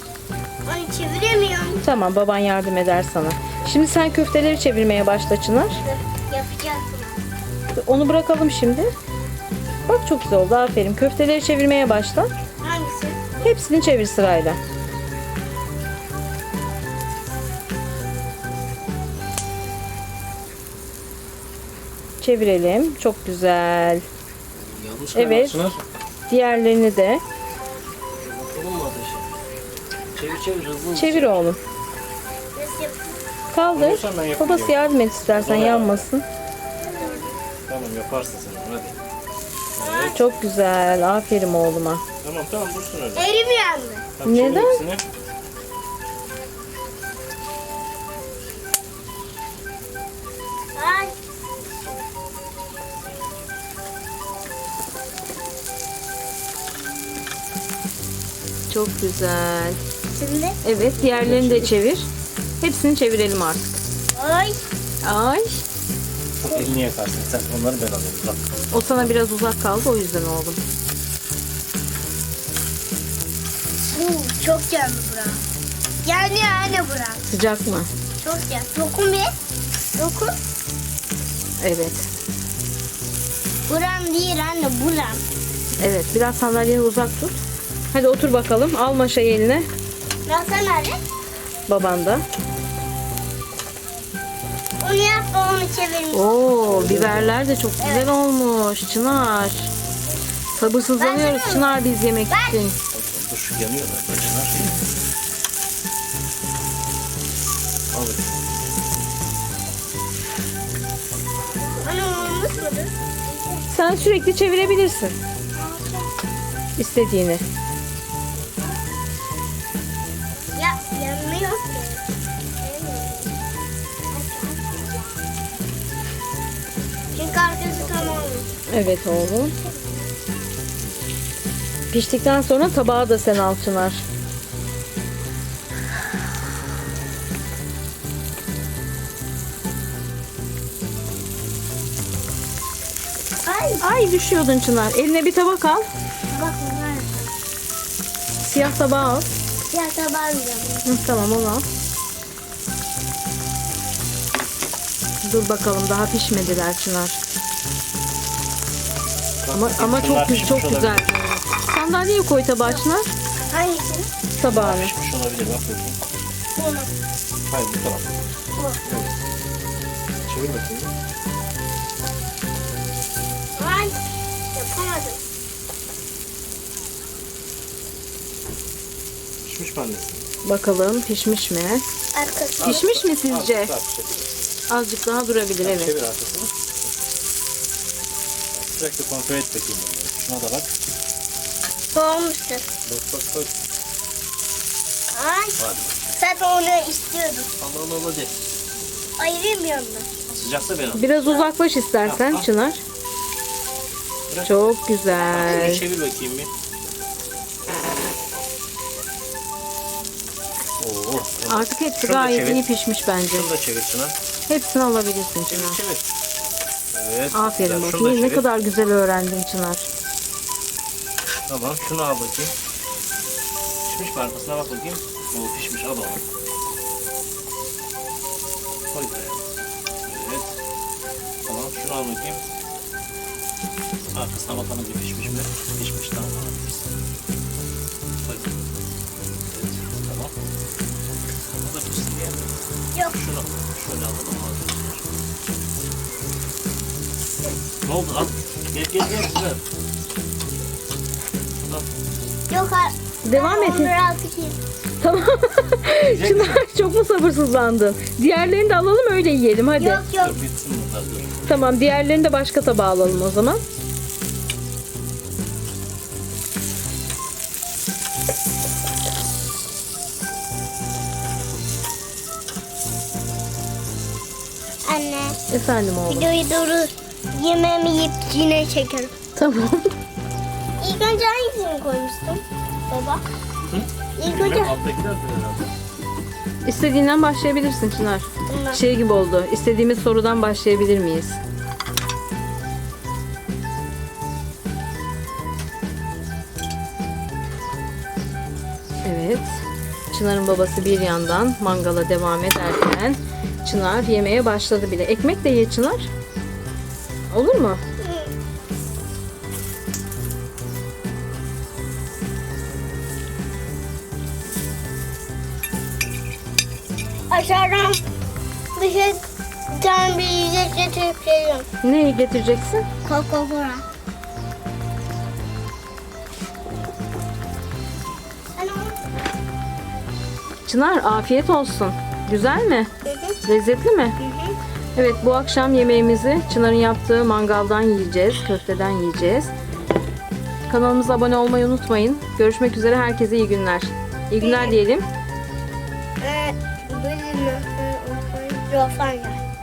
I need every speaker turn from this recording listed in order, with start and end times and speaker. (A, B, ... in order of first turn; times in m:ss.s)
0:00.6-0:01.8 A
0:01.8-0:05.8 B
0:05.8-0:07.2 A
0:07.7-0:08.9 B
0:09.9-0:12.3 B
0:12.6-0:13.4 A
0:13.4-0:14.6 B
0:22.2-0:24.0 B
0:24.6-0:25.8 C
0:25.1-0:25.6 B
0:26.3-0:27.2 B
0:28.2-0:29.3 C
0:30.1-0:31.5 C
0:30.9-0:31.6 B
0:32.6-0:33.2 A
0:33.5-0:36.2 B
0:33.6-0:36.1 C
0:36.8-0:37.4 A
0:37.7-0:39.0 C
0:39.8-0:40.2 C
0:39.8-0:40.2 A
0:40.1-0:42.0 B
0:42.2-0:43.3 C
0:43.2-0:44.0 A
0:44.2-0:45.0 C
0:44.2-0:44.8 B
0:50.8-0:51.1 A
0:51.6-0:52.0 C
0:58.7-0:59.8 B
1:00.1-1:00.6 A
1:00.6-1:02.1 B
1:00.9-1:01.8 C
1:02.6-1:03.8 B
1:04.1-1:04.6 A
1:05.0-1:05.6 B
1:06.4-1:09.2 C
1:08.7-1:10.6 B
1:13.9-1:15.4 A
1:16.0-1:17.2 A
1:17.3-1:17.9 B
1:18.2-1:19.3 A
1:20.0-1:20.3 A
1:21.6-1:22.1 B
1:23.7-1:25.2 A
1:25.8-1:27.4 B
1:27.9-1:29.7 B
1:30.2-1:31.0 A
1:31.7-1:32.2 B
1:34.8-1:36.3 A
1:36.1-1:39.7 B
1:36.6-1:37.4 C
1:37.8-1:38.1 A
1:40.5-1:42.8 B
1:40.8-1:42.6 A
1:42.9-1:44.8 C
1:47.9-1:48.4 C
1:51.8-1:53.7 A
1:53.7-1:55.2 B
1:55.6-1:56.1 A
1:56.8-1:57.4 B
1:58.4-1:58.7 A
2:00.6-2:02.0 A
2:02.6-2:03.3 A
2:04.1-2:05.2 A
2:07.1-2:08.5 A
2:07.9-2:08.3 C
2:08.7-2:09.5 B
2:09.6-2:10.1 A
2:11.9-2:14.0 B
2:23.4-2:23.8 A
2:23.8-2:25.8 B
2:26.3-2:27.3 A
2:28.4-2:29.3 B
2:29.7-2:30.8 A
2:30.8-2:31.6 B
2:35.2-2:37.2 B
2:39.4-2:41.1 C
2:39.5-2:43.1 B
2:43.5-2:44.1 A
2:44.4-2:44.9 B
2:44.5-2:46.0 C
2:46.6-2:46.9 A
2:47.5-2:48.3 C
2:48.8-2:49.2 C
2:50.2-2:50.9 C
2:53.6-2:54.0 A
2:54.5-2:55.2 A
2:59.4-3:00.3 C
3:00.4-3:01.8 B
3:02.1-3:02.8 A
3:02.6-3:04.3 C
3:02.6-3:03.7 B
3:04.7-3:05.9 B
3:05.6-3:06.9 C
3:08.5-3:10.8 C
3:11.9-3:12.7 A
3:12.8-3:13.6 C
3:15.1-3:15.6 A
3:15.6-3:16.1 C
3:16.1-3:17.5 A
3:17.6-3:18.4 C
3:19.2-3:20.2 A
3:20.3-3:21.0 C
3:20.9-3:22.8 B
3:22.0-3:22.4 C
3:24.3-3:26.5 C
3:24.4-3:25.8 B
3:30.8-3:32.6 C
3:31.5-3:33.5 B
3:33.3-3:34.2 C
3:34.5-3:35.8 B
3:35.5-3:36.1 C
3:36.9-3:38.5 C
3:37.3-3:39.9 B
3:41.5-3:42.6 C
3:43.8-3:46.2 C
3:48.9-3:49.4 C
3:50.1-3:50.6 C
3:51.4-3:52.4 C
3:54.1-3:56.9 C
3:58.2-3:58.6 C
3:59.5-4:00.3 C
4:01.6-4:05.1 C
4:02.9-4:03.2 A
4:07.8-4:09.6 C
4:12.5-4:14.6 A
4:13.2-4:13.9 B
4:15.0-4:20.0 B
4:16.1-4:16.6 C
4:19.8-4:20.4 A
4:20.2-4:21.4 C
4:21.4-4:23.6 B
4:34.8-4:35.4 A
4:35.5-4:36.3 B
4:36.1-4:39.1 A
4:39.3-4:39.9 B
4:40.8-4:43.2 A
4:43.7-4:45.8 C
4:44.2-4:44.8 A
4:46.6-4:51.4 B
4:48.5-4:48.8 A
4:59.0-4:59.5 B
5:00.1-5:06.1 B
5:07.3-5:07.8 B
5:08.0-5:08.3 A
5:17.3-5:18.0 A
5:18.8-5:21.7 A
5:21.8-5:22.8 B
5:23.0-5:23.8 A
5:28.6-5:29.0 A
5:30.7-5:32.9 B
5:33.0-5:33.4 A
5:33.4-5:34.2 B
5:34.2-5:34.6 A
5:34.9-5:39.5 B
5:40.7-5:45.1 B
5:44.4-5:44.8 A
5:46.2-5:49.4 A